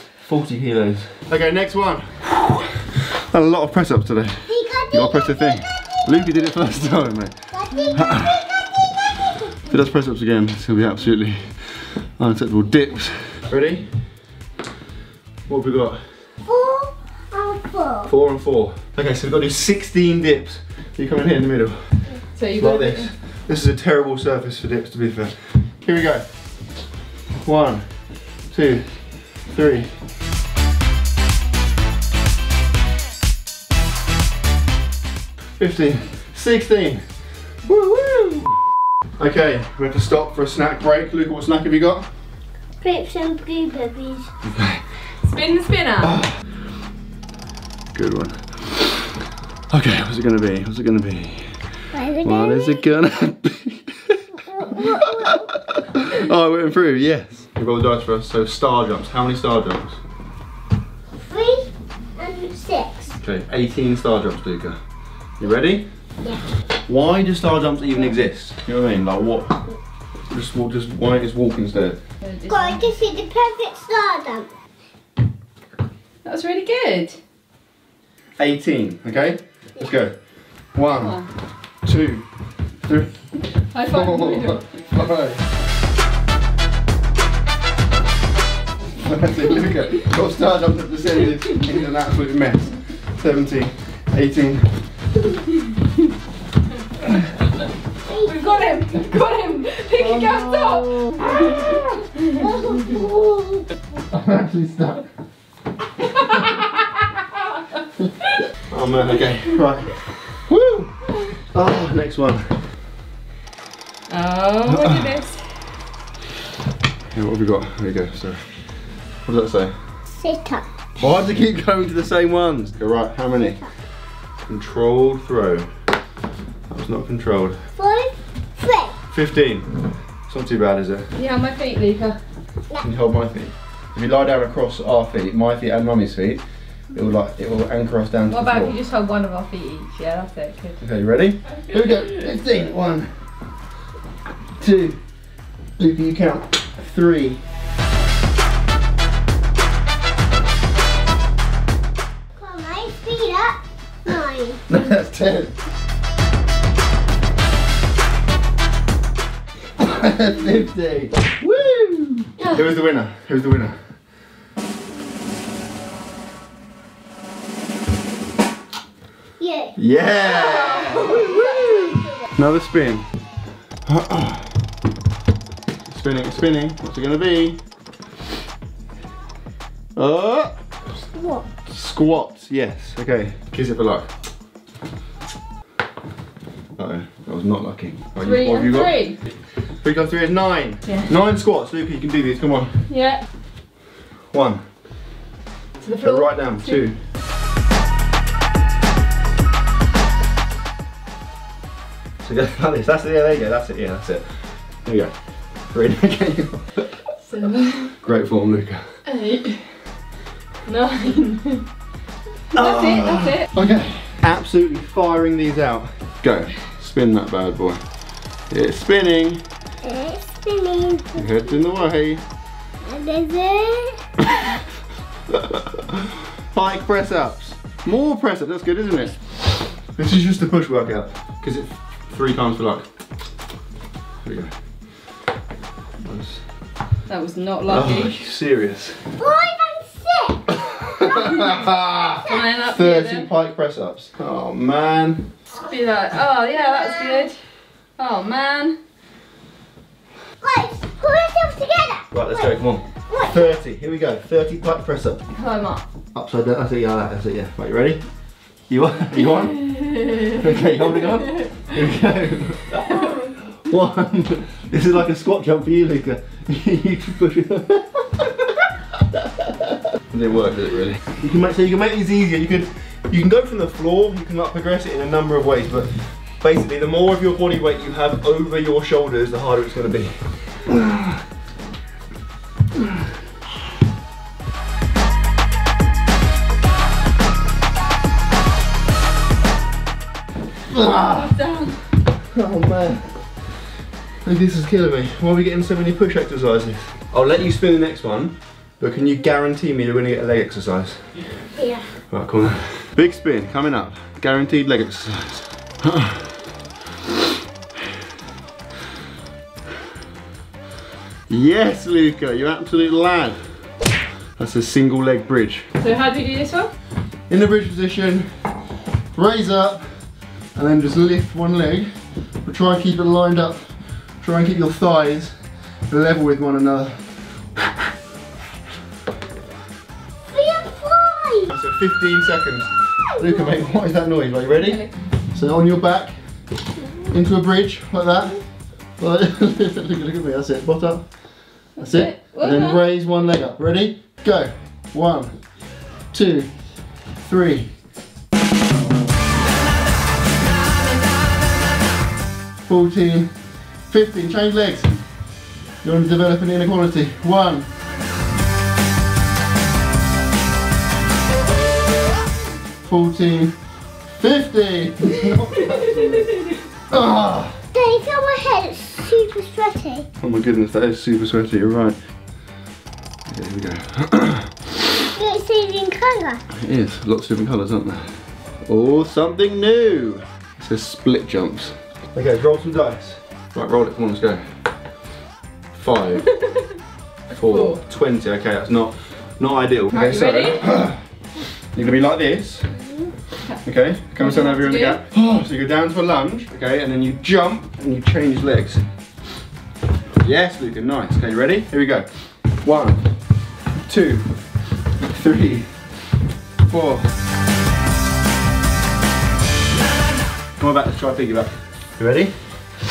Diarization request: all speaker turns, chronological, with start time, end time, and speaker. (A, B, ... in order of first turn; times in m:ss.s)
0:00.2-0:07.4 A
0:04.5-0:05.6 B
0:07.5-0:08.6 B
0:07.9-0:08.6 A
0:09.6-0:13.9 A
0:15.5-0:16.0 A
0:16.5-0:18.1 B
0:18.1-0:21.8 A
0:22.4-0:23.1 C
0:22.6-0:26.3 A
0:27.4-0:27.8 A
0:28.5-0:28.9 A
0:29.5-0:29.9 A
0:35.6-0:37.0 A
0:37.6-0:38.6 A
0:39.2-0:42.1 A
0:42.8-0:44.3 B
0:44.5-0:44.8 A
0:45.2-0:46.2 C
0:46.0-0:46.3 A
0:47.9-0:49.1 A
0:49.7-0:51.6 A
0:51.9-0:52.9 B
0:52.2-1:00.0 A
0:54.6-0:55.5 B
1:01.2-1:03.2 B
1:03.2-1:04.8 A
1:05.4-1:05.9 A
1:06.9-1:09.6 A
1:10.3-1:12.0 A
1:12.2-1:12.9 C
1:12.5-1:14.5 B
1:16.2-1:17.2 C
1:18.4-1:20.2 A
1:20.8-1:21.2 A
1:21.0-1:21.3 C
1:21.8-1:22.2 A
1:22.8-1:23.1 A
1:23.7-1:24.8 C
1:23.9-1:25.4 A
1:29.0-1:34.8 A
1:38.1-1:39.0 B
1:38.2-1:42.4 C
1:40.0-1:41.5 A
1:42.4-1:43.6 B
1:44.1-1:45.1 A
1:46.2-1:46.5 C
1:48.7-1:52.5 A
1:54.1-1:55.4 C
1:54.7-1:55.1 A
1:57.1-1:58.4 A
1:59.2-1:59.7 A
2:00.1-2:00.7 B
2:01.0-2:03.6 A
2:04.5-2:05.7 A
2:06.7-2:07.6 A
2:07.8-2:09.0 B
2:09.1-2:09.7 A
2:10.3-2:11.1 A
2:11.2-2:12.2 C
2:12.8-2:16.4 A
2:16.9-2:18.8 A
2:18.3-2:20.8 C
2:20.8-2:23.1 A
2:24.6-2:25.0 A
2:25.8-2:27.4 A
2:32.4-2:34.6 B
2:34.7-2:35.5 A
2:39.8-2:43.8 A
2:49.4-2:49.8 B
2:49.8-2:53.1 A
2:50.2-2:51.4 C
2:51.1-2:52.1 B
2:53.9-2:54.5 A
2:55.8-2:57.6 A
3:00.0-3:00.6 A
3:01.0-3:01.5 B
3:01.6-3:04.1 A
3:06.8-3:09.0 A
3:08.2-3:09.2 C
3:09.8-3:12.8 A
3:12.9-3:13.2 C
3:14.3-3:14.6 A
3:15.8-3:16.8 C
3:16.0-3:17.0 A
3:22.2-3:24.3 A
3:24.8-3:25.1 A
3:25.7-3:26.9 A
3:27.3-3:27.9 C
3:28.0-3:28.9 A
3:29.1-3:29.8 C
3:30.7-3:31.7 C
3:32.5-3:33.5 C
3:32.5-3:37.8 A
3:38.5-3:39.4 A
3:39.8-3:41.5 B
3:41.2-3:42.2 A
3:42.8-3:44.0 B
3:45.3-3:49.3 A
3:49.9-3:52.9 A
3:54.2-3:54.5 A
3:56.0-3:56.4 A
3:57.1-3:58.2 C
3:57.7-3:59.1 A
3:59.2-4:01.2 B
4:00.9-4:05.3 A
4:02.2-4:03.3 C
4:05.6-4:07.4 C
4:06.6-4:07.3 B
4:08.0-4:08.8 C
4:10.4-4:12.5 B
4:12.1-4:15.2 A
4:13.1-4:13.6 B
4:15.3-4:15.8 C
4:16.1-4:18.0 A
4:18.7-4:28.5 A
4:19.9-4:20.2 C
4:29.2-4:41.1 A
4:50.7-4:51.4 A
4:50.8-4:51.8 C
4:52.3-4:53.1 A
4:54.2-5:01.3 A
5:01.6-5:01.8 B
5:02.0-5:06.3 A
5:11.3-5:13.4 A
5:14.4-5:15.7 A
5:15.8-5:16.7 C
5:17.3-5:18.3 A
5:19.1-5:19.8 A
5:20.6-5:21.9 A
5:22.4-5:23.7 A
5:24.2-5:25.4 A
5:25.9-5:27.0 A
5:30.3-5:31.5 B
5:31.5-5:36.1 A
5:34.5-5:34.9 C
5:37.0-5:38.4 A
5:39.0-5:41.1 A
5:41.8-5:42.8 C
5:41.8-5:45.4 A
5:46.1-5:46.5 A
5:47.3-5:47.7 A
5:52.7-5:53.3 A
5:53.9-5:55.0 A
5:55.8-5:57.7 A
6:02.8-6:03.6 A
6:04.2-6:06.3 A
6:05.6-6:06.6 C
6:06.9-6:07.6 A
6:07.7-6:10.1 B
6:10.2-6:12.0 A
6:13.3-6:14.6 A
6:15.2-6:16.4 B
6:16.5-6:24.4 A
6:25.7-6:26.3 A
6:27.3-6:31.0 A
6:27.4-6:27.8 C
6:29.9-6:30.6 C
6:31.7-6:32.8 A
6:33.6-6:38.8 A
6:34.2-6:35.0 C
6:40.2-6:42.1 A
6:42.6-6:43.0 A
6:43.8-6:44.3 A
6:45.1-6:45.7 A
6:46.6-6:47.1 A
6:50.6-6:52.3 A